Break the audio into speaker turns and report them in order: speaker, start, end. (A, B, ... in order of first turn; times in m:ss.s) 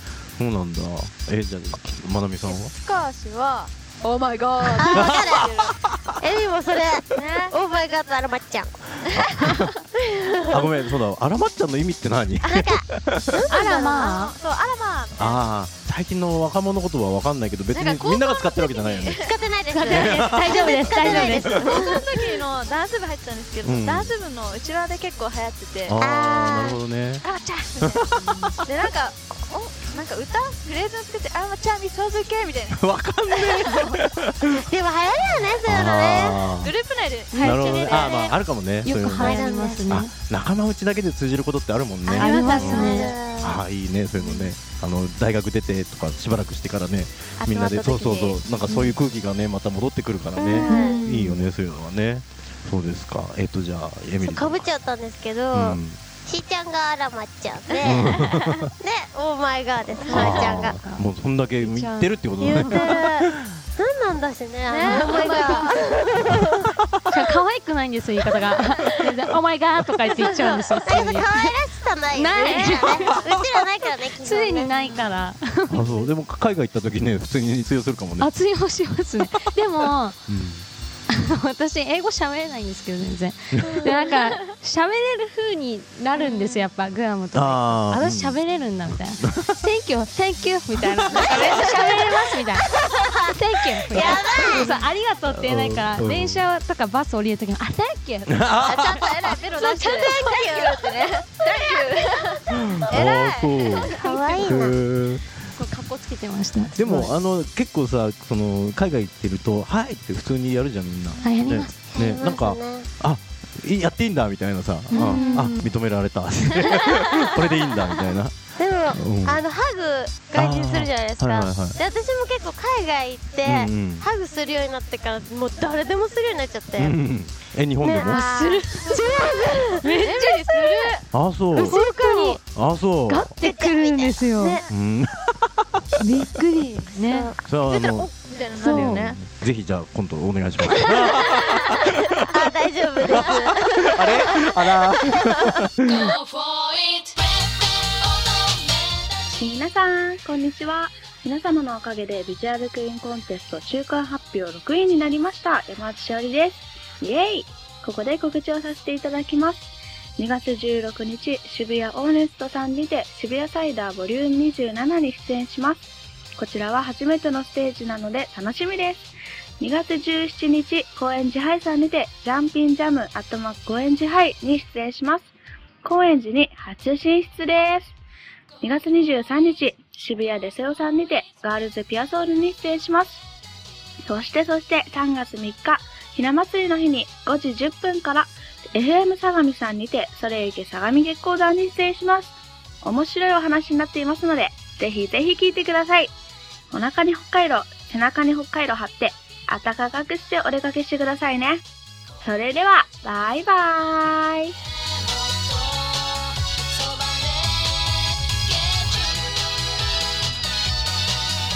0:00.4-0:02.7 A
0:02.5-0:05.9 B
0:04.7-0:05.4 C
0:04.9-0:06.0 A
0:06.2-0:10.6 C
0:07.2-0:07.6 B
0:09.0-0:09.7 A
0:09.2-0:09.6 B
0:10.5-0:13.4 A
0:12.4-0:14.1 C
0:13.5-0:14.3 D
0:13.6-0:15.4 B
0:15.2-0:19.3 A
0:17.7-0:26.0 B
0:19.2-0:22.0 C
0:19.7-0:21.7 D
0:19.9-0:21.6 A
0:23.6-0:24.1 A
0:25.9-0:27.2 A
0:26.0-0:26.8 C
0:27.2-0:28.0 B
0:27.8-0:28.5 A
0:28.3-0:28.5 D
0:28.6-0:34.0 B
0:32.7-0:34.6 A
0:34.6-0:36.4 C
0:35.6-0:36.8 A
0:35.7-0:38.4 B
0:37.3-0:38.0 D
0:37.3-0:54.7 A
0:38.8-0:40.1 D
0:39.2-0:39.9 C
0:42.1-0:43.6 C
0:42.1-0:43.1 D
0:42.3-0:43.1 B
0:47.4-0:48.4 B
0:50.4-0:51.0 C
0:50.5-0:51.4 D
0:54.2-1:00.8 C
0:55.5-0:56.0 A
0:57.8-0:58.7 A
1:00.0-1:01.1 D
1:00.0-1:03.5 A
1:01.6-1:03.0 D
1:02.4-1:06.6 C
1:04.7-1:05.9 B
1:04.8-1:05.8 D
1:06.3-1:06.9 A
1:07.1-1:11.6 D
1:10.2-1:10.8 B
1:10.8-1:15.0 C
1:12.1-1:13.1 D
1:12.4-1:13.1 B
1:13.4-1:13.6 A
1:14.2-1:15.9 D
1:14.7-1:15.0 B
1:15.7-1:18.3 A
1:18.2-1:20.2 D
1:19.8-1:20.7 A
1:21.1-1:40.4 D
1:23.5-1:23.9 A
1:26.2-1:26.7 B
1:27.3-1:29.6 A
1:31.1-1:31.6 A
1:31.3-1:31.9 B
1:33.9-1:34.8 C
1:33.9-1:34.7 B
1:33.9-1:34.7 A
1:35.3-1:36.5 A
1:38.3-1:39.4 A
1:38.6-1:44.4 B
1:39.6-1:40.8 C
1:42.6-1:45.3 A
1:43.9-1:44.8 C
1:45.6-1:47.1 D
1:46.8-1:58.4 A
1:51.2-1:51.7 D
1:51.4-1:52.9 C
1:54.9-1:55.7 D
1:55.0-1:55.3 B
1:58.6-2:07.0 C
1:58.9-1:59.4 A
2:00.3-2:01.8 A
2:03.4-2:04.1 A
2:06.8-2:08.3 A
2:07.8-2:09.9 C
2:08.0-2:11.0 D
2:10.0-2:11.1 B
2:11.1-2:11.8 A
2:11.6-2:12.4 D
2:11.6-2:12.4 B
2:12.5-2:13.3 A
2:13.1-2:14.6 D
2:13.4-2:14.7 C
2:14.7-2:16.0 A
2:16.0-2:17.4 D
2:17.1-2:19.2 B
2:17.4-2:22.4 A
2:18.6-2:19.2 D
2:20.9-2:21.8 B
2:22.3-2:24.5 C
2:23.0-2:26.1 A
2:26.0-2:27.1 B
2:29.4-2:57.9 E
2:58.6-3:03.2 E
3:04.1-3:16.1 E
3:16.7-3:21.6 E
3:22.2-3:24.6 E